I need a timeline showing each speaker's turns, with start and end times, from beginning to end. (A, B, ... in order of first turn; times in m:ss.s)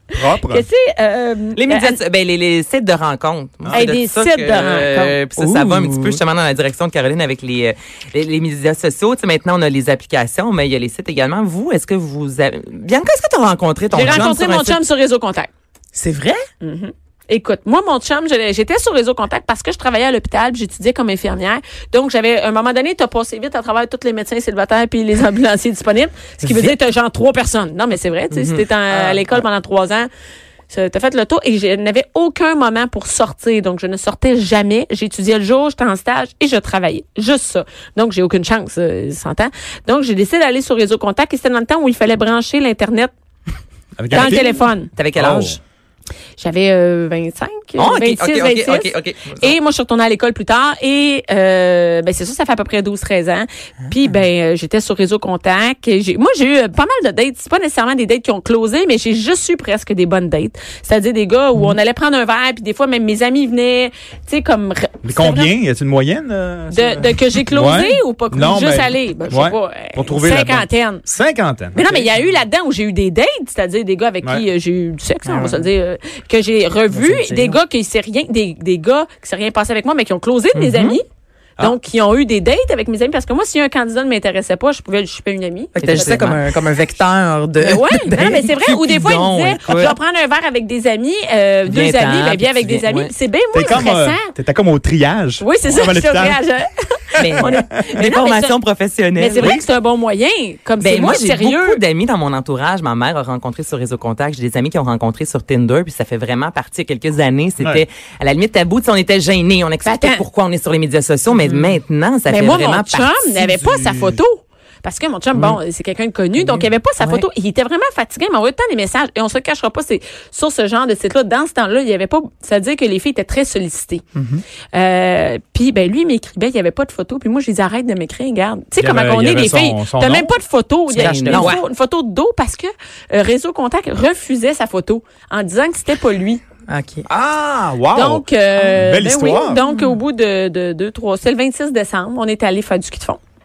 0:00.1-0:00.7 A
0:00.4-0:02.0 B
0:01.5-0:14.8 C
0:03.6-0:03.9 A
0:03.7-0:05.2 B
0:05.4-0:06.2 D
0:13.9-0:15.5 B
0:14.0-0:14.3 D
0:15.9-0:16.4 D
0:16.6-0:30.1 B
0:26.4-0:26.7 D
0:28.3-0:28.6 C
0:28.9-0:29.2 D
0:30.7-0:43.1 B
0:44.0-0:44.5 A
0:44.1-0:44.9 B
0:44.1-0:45.6 C
0:45.1-0:45.6 A
0:46.4-1:05.5 B
0:47.8-0:49.6 C
1:05.0-1:12.1 A
1:06.7-1:11.0 B
1:11.7-1:21.0 B
1:15.2-1:15.7 D
1:16.9-1:17.6 D
1:20.6-1:20.9 D
1:21.6-1:26.3 B
1:25.8-1:28.4 D
1:25.8-1:26.4 C
1:27.6-1:34.3 B
1:28.3-1:30.0 C
1:31.6-1:33.1 C
1:33.5-1:36.4 A
1:35.4-1:38.6 B
1:37.2-1:39.6 C
1:39.2-1:41.8 B
1:40.8-1:53.3 C
1:49.8-1:50.2 B
1:52.3-2:04.0 B
1:53.4-1:54.2 A
1:56.4-1:56.6 D
1:57.0-1:57.2 C
2:04.1-2:04.4 D
2:04.7-2:16.4 B
2:08.8-2:10.3 A
2:10.9-2:11.6 D
2:11.0-2:11.6 C
2:16.7-2:17.1 D
2:17.1-2:19.6 A
2:17.9-2:23.2 B